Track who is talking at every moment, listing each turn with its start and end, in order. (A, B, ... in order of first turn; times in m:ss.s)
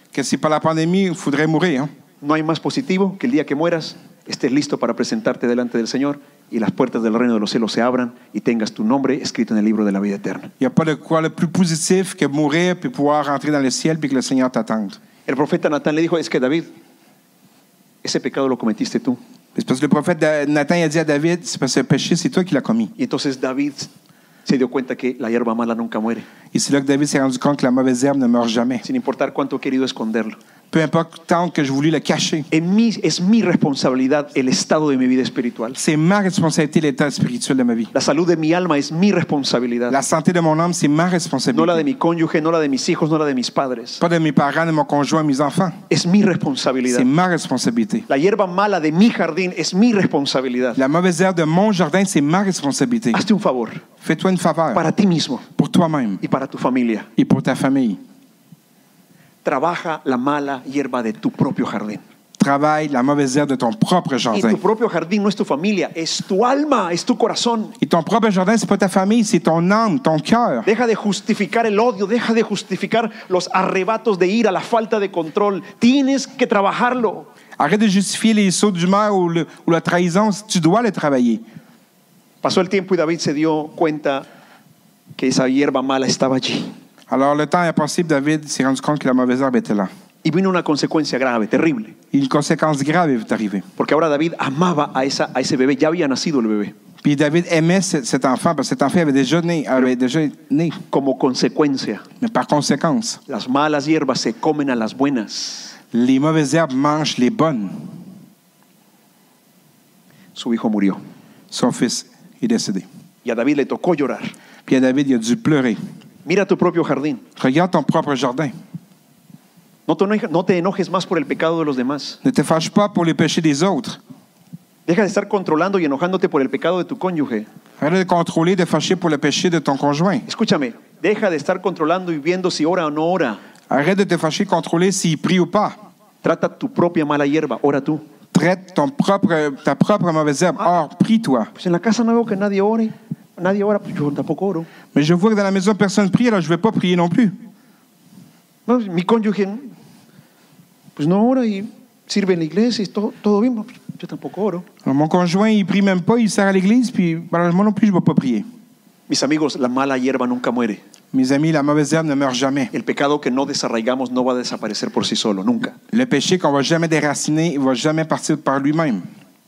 0:00.1-0:01.9 A
0:02.2-0:10.5 B
0:10.6-0:15.0 A
0:15.3-0:16.7 B
0:18.0-0:19.2 B
0:19.6-0:22.9 A
0:23.0-0:23.9 B
0:24.5-0:26.3 B
0:26.5-0:28.8 A
0:28.8-0:30.4 B
0:30.7-0:32.5 A
0:32.5-0:35.8 B
0:35.8-0:37.9 A
0:37.9-0:40.0 B
0:39.9-0:41.8 A
0:41.5-0:44.0 B
0:44.0-0:45.8 A
0:45.9-0:47.1 B
0:46.9-0:48.1 A
0:48.1-0:50.8 B
0:50.8-0:53.2 A
0:53.1-0:53.8 B
0:54.0-0:54.8 A
0:54.7-0:55.5 B
0:55.6-0:56.2 A
0:56.2-0:57.1 B
0:57.2-0:58.0 A
0:59.4-1:02.0 B
1:02.4-1:04.6 A
1:04.3-1:07.8 B
1:07.8-1:10.7 A
1:10.6-1:17.3 B
1:17.6-1:21.4 A
1:22.4-1:24.3 B
1:25.2-1:26.7 B
1:27.1-1:29.9 A
1:30.2-1:32.0 B
1:32.1-1:33.7 A
1:33.8-1:36.8 B
1:37.0-1:40.8 A
1:40.9-1:42.0 B
1:42.2-1:43.2 A
1:43.3-1:45.7 B
1:45.9-1:47.9 A
1:50.4-1:51.0 B
1:51.5-1:52.9 A
1:53.2-1:54.3 B
1:54.7-1:55.8 A
1:56.2-1:57.2 B
1:57.4-1:58.5 A
1:59.9-2:02.2 B
2:02.2-2:04.0 A
2:04.9-2:07.5 B
2:07.8-2:10.3 A
2:10.3-2:13.4 B
2:13.7-2:15.8 A
2:16.2-2:18.0 B
2:18.3-2:21.5 A
2:21.6-2:24.7 B
2:24.9-2:27.4 A
2:28.7-2:29.7 B
2:31.0-2:34.7 B
2:34.8-2:38.5 A
2:39.1-2:40.8 B
2:41.1-2:42.7 A
2:42.7-2:45.8 B
2:45.9-2:49.1 A